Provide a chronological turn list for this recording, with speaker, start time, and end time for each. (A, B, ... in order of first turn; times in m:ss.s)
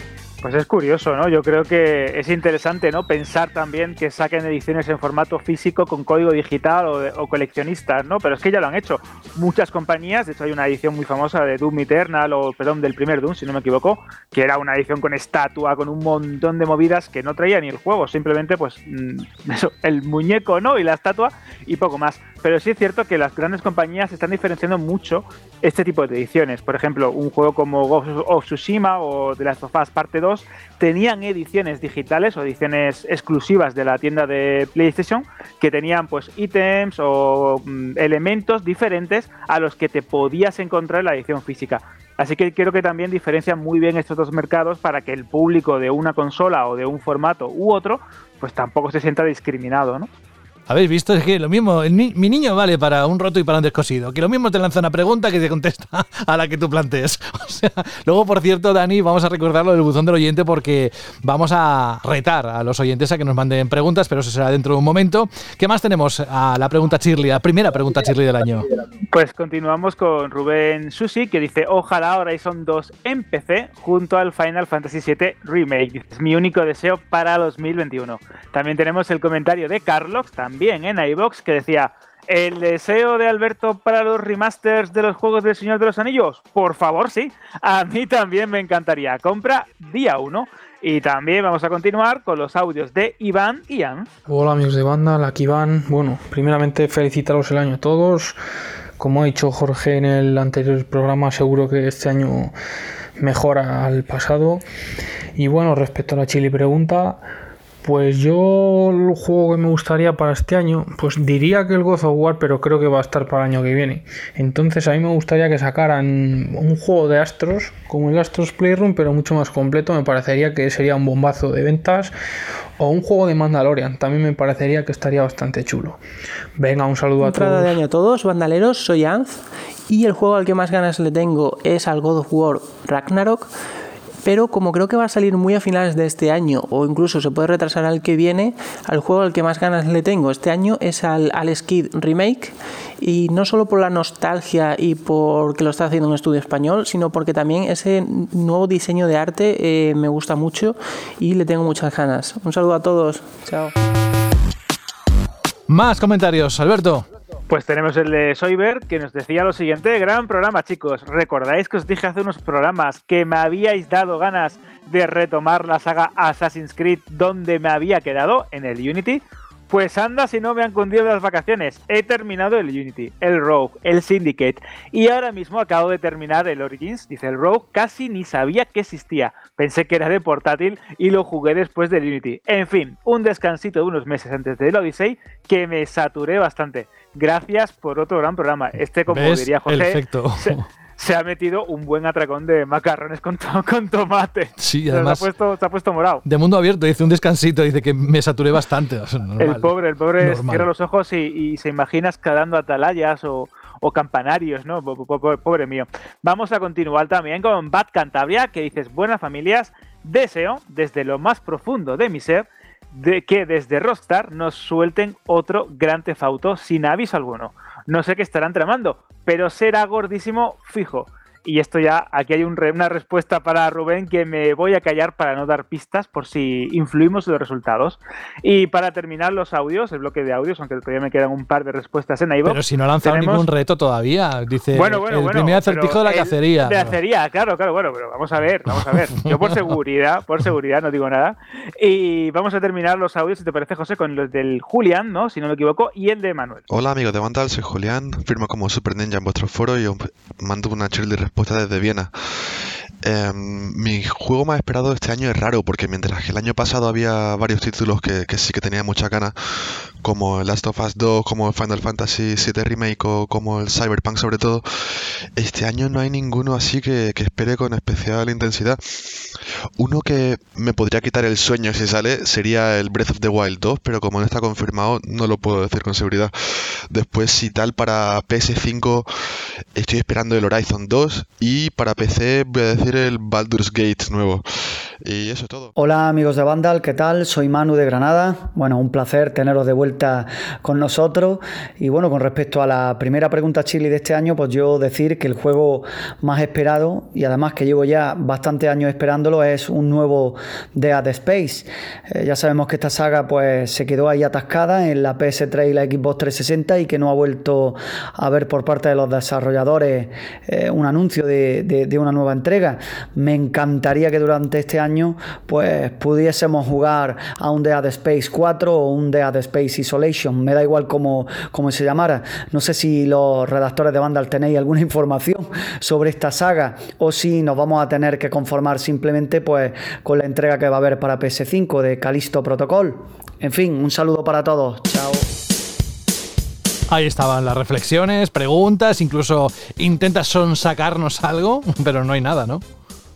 0:00.4-0:50.1 A
0:50.7-1:08.6 B
1:09.1-1:34.1 A
1:34.2-1:38.4 C
1:39.0-1:42.5 C
1:43.2-1:44.6 C
1:45.4-1:47.2 C
1:47.8-2:02.1 C
2:02.8-2:06.0 C
2:06.6-2:07.8 C
2:07.2-2:13.5 D
2:14.2-2:33.7 D
2:35.7-2:37.0 B
2:37.5-3:16.2 A
3:09.1-3:10.6 B
3:14.6-3:15.3 B
3:16.2-3:20.7 B
3:19.4-3:53.4 A
3:52.4-3:56.9 B
3:54.7-4:06.6 A
3:58.7-3:59.7 B
4:06.7-4:12.1 E
4:13.0-4:19.3 E
4:20.0-4:36.3 E
4:36.9-4:39.1 E
4:39.7-4:44.4 E
4:45.0-4:45.7 E
4:45.8-5:35.2 F
5:36.9-5:42.6 B